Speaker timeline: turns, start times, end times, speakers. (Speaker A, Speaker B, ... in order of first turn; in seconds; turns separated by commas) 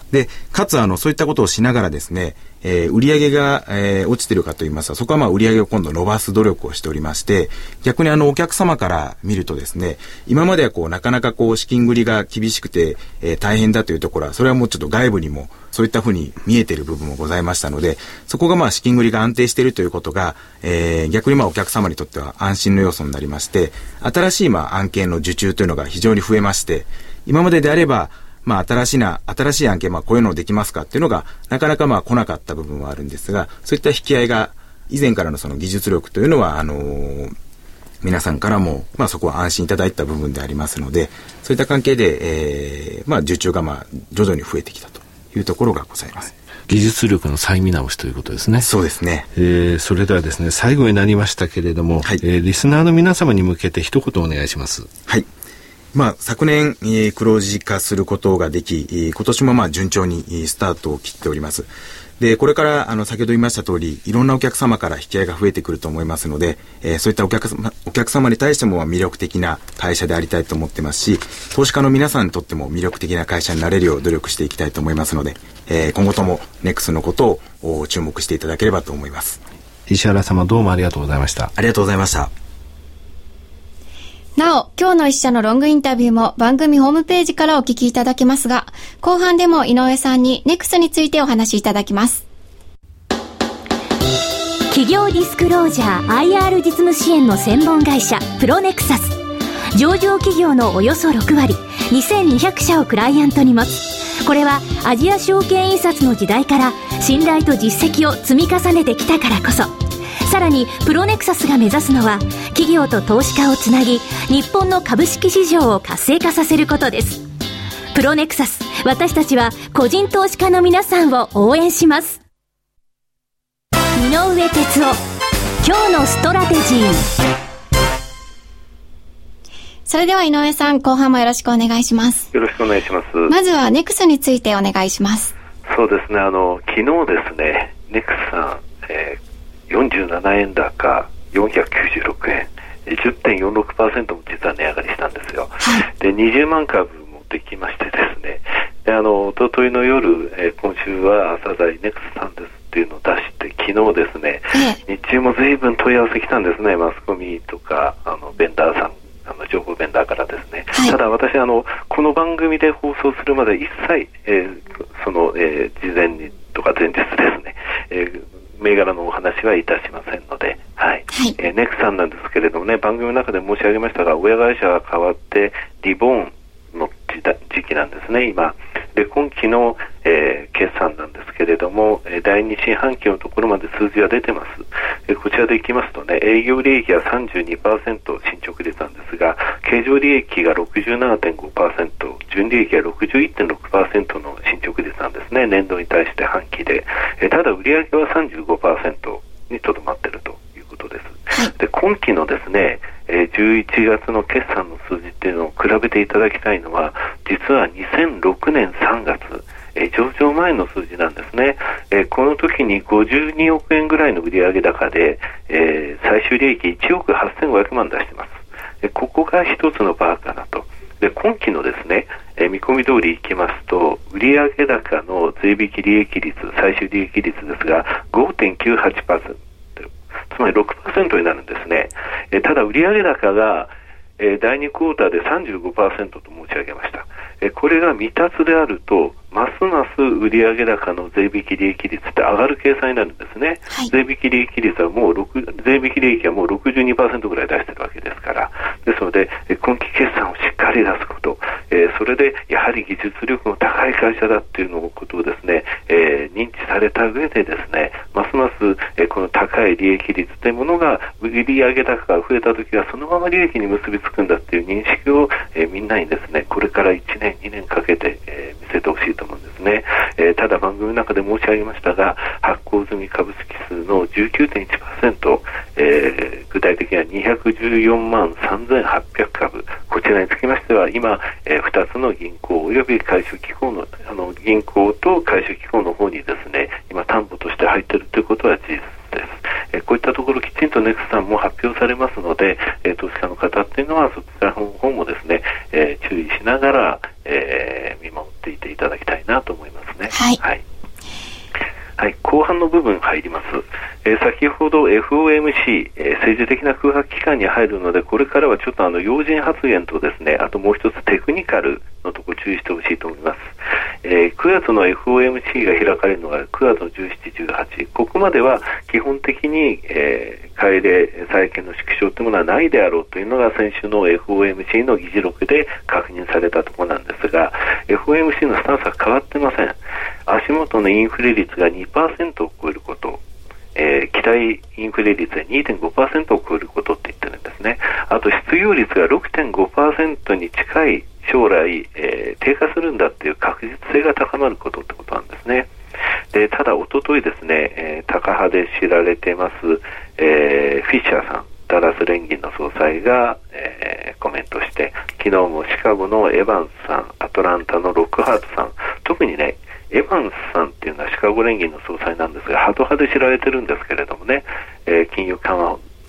Speaker A: 0.1-37.3, Speaker A: 38.0-46.3, Speaker B: 46.7-48.7, Speaker A: 48.6-49.3, Speaker B: 49.3-54.9, Speaker A: 55.9-79.4, Speaker B: 79.9-81.5, Speaker A: 81.5-82.3, Speaker C: 84.4-92.2, Speaker D: 94.7-99.2, Speaker D: 99.7-117.2, Speaker D: 117.9-122.2, Speaker D: 124.0-125.0, Speaker D: 125.6-127.1, Speaker C: 129.8-132.3, Speaker E: 132.3-133.3, Speaker C: 133.3-135.3, Speaker E: 135.7-300.6, Speaker C: 300.1-300.4, Speaker E: 302.0-313.5, Speaker E: 314.0-333.2, Speaker E: 333.7-345.7, Speaker E: 346.3-365.8